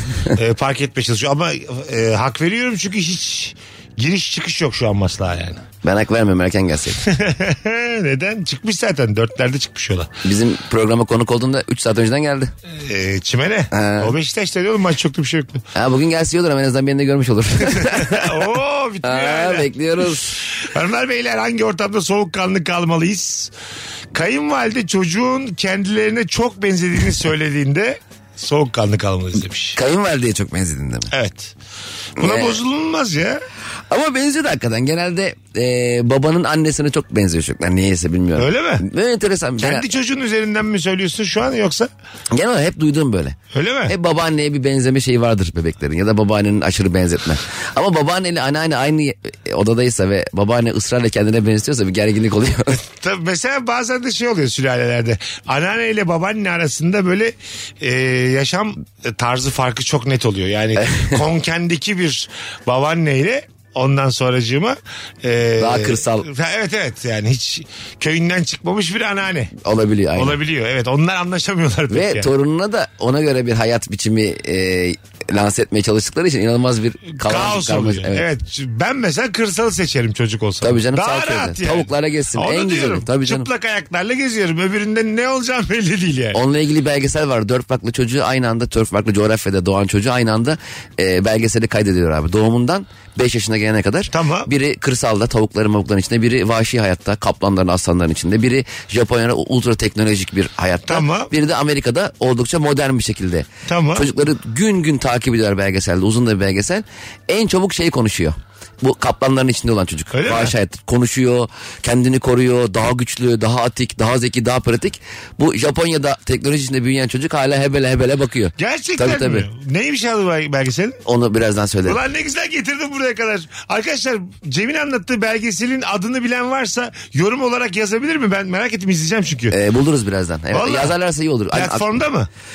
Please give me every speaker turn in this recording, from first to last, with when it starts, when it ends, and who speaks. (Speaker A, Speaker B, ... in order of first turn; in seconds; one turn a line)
Speaker A: 0.3-5.6
Speaker B: 5.8-7.0
Speaker A: 7.0-10.1
Speaker B: 10.2-12.5
Speaker A: 12.7-15.6
Speaker B: 13.7-14.1
Speaker B: 15.7-18.4
Speaker A: 17.6-19.7
Speaker B: 19.0-20.4
Speaker A: 20.4-23.5
Speaker A: 24.1-29.8
Speaker B: 29.8-31.1
Speaker A: 31.1-31.5
Speaker A: 32.2-33.4
Speaker B: 32.2-32.6
Speaker B: 33.9-39.9
Speaker A: 38.4-38.9
Speaker A: 39.6-41.9
Speaker B: 42.3-43.4
Speaker A: 43.5-43.9
Speaker B: 43.9-52.8
Speaker A: 52.8-69.5
Speaker B: 60.8-61.2
Speaker B: 65.6-66.3
Speaker B: 69.6-70.4
Speaker A: 70.2-72.3
Speaker B: 71.9-78.3
Speaker A: 77.2-86.4
Speaker B: 80.6-83.5
Speaker B: 86.3-119.5
Speaker A: 94.1-94.5
Speaker A: 100.9-101.3
Speaker A: 103.7-104.1
Speaker A: 110.1-110.5
Speaker A: 118.6-121.0
Speaker B: 121.1-122.0
Speaker A: 121.8-129.6
Speaker B: 129.5-131.9
Speaker A: 130.5-130.9
Speaker A: 131.5-132.3